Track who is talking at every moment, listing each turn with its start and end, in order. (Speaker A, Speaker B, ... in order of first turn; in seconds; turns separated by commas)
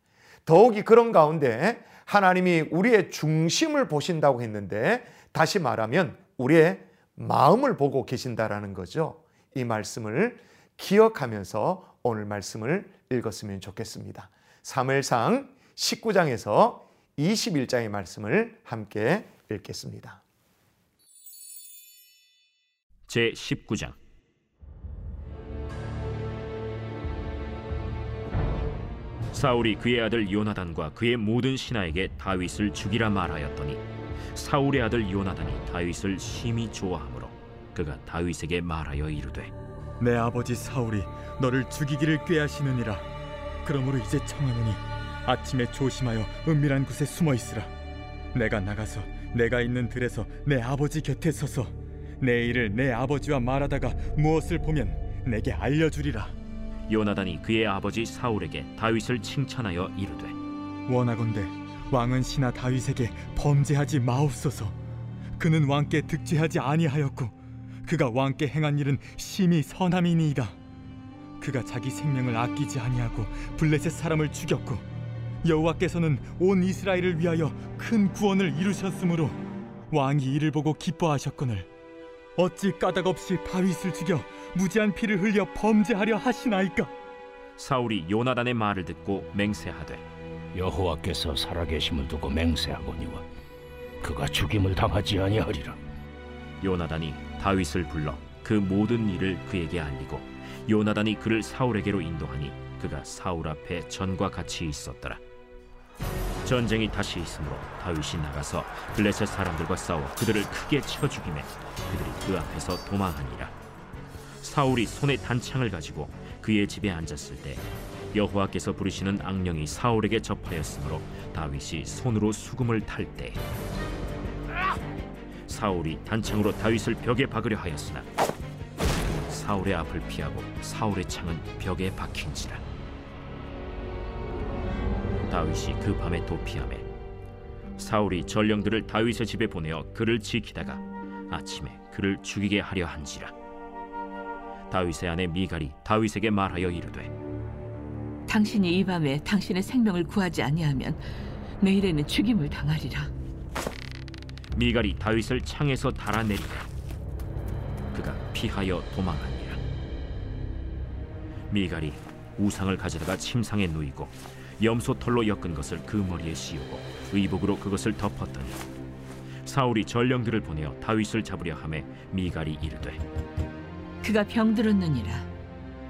Speaker A: 0.5-20.2, Speaker B: 23.1-24.0, Speaker B: 29.3-39.5, Speaker C: 40.0-43.0, Speaker C: 43.6-47.7, Speaker C: 48.3-56.3, Speaker B: 56.9-60.4, Speaker C: 60.9-64.7, Speaker C: 65.4-67.3, Speaker C: 67.8-70.5, Speaker C: 71.4-74.8, Speaker C: 75.4-79.4, Speaker C: 79.9-81.7, Speaker C: 82.3-86.9, Speaker B: 87.6-90.0, Speaker D: 90.5-93.2, Speaker D: 94.0-95.8, Speaker B: 96.6-105.2, Speaker B: 106.4-113.5, Speaker B: 114.4-123.4, Speaker B: 125.5-128.1, Speaker B: 129.0-132.6, Speaker B: 135.3-136.8, Speaker B: 137.8-143.3, Speaker B: 144.7-147.1, Speaker E: 148.3-151.0, Speaker E: 151.6-153.1, Speaker B: 154.5-156.7, Speaker B: 157.9-159.6, Speaker B: 161.5-168.6, Speaker B: 169.4-173.0, Speaker E: 174.0-175.3